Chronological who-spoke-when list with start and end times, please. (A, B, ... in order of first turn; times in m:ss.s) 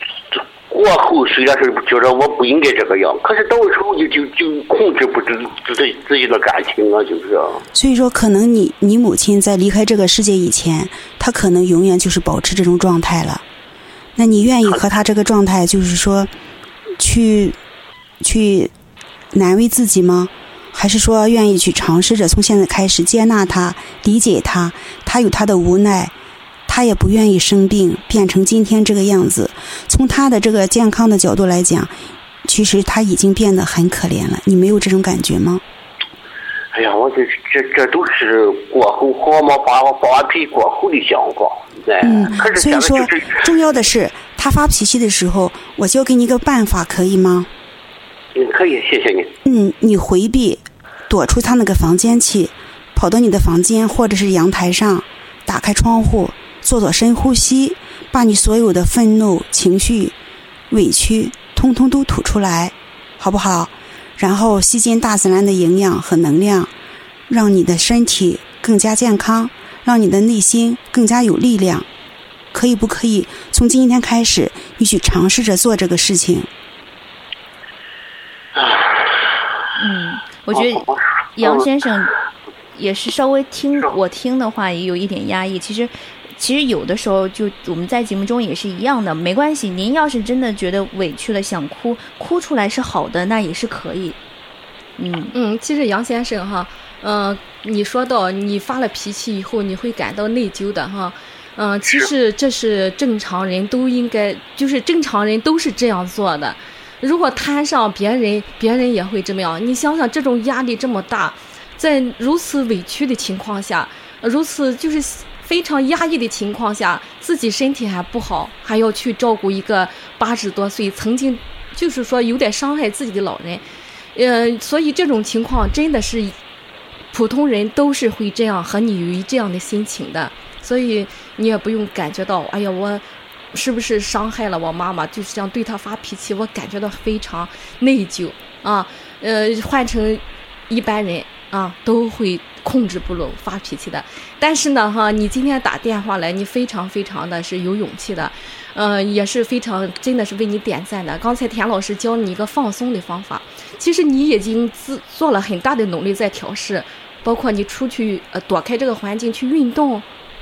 0:00.3-0:07.6 A
0:07.7-0:13.4 B
0:14.2-0:16.3 B
0:17.0-0:17.6 B
0:18.2-0:18.7 B
0:19.3-0:26.1 B
0:26.7-0:35.6 B
0:36.7-0:43.4 A
0:42.0-0:47.5 B
0:48.4-0:49.3 A
0:49.4-1:00.1 B
1:00.7-1:06.7 B
1:07.3-1:11.9 B
1:12.5-1:16.5 B
1:18.6-1:19.3 A
1:19.8-1:22.1 C
1:20.5-1:21.7 A
1:22.8-1:34.2 C
1:35.0-1:35.3 C
1:35.3-2:03.6 D
2:04.2-2:06.3 D
2:07.1-2:40.1 D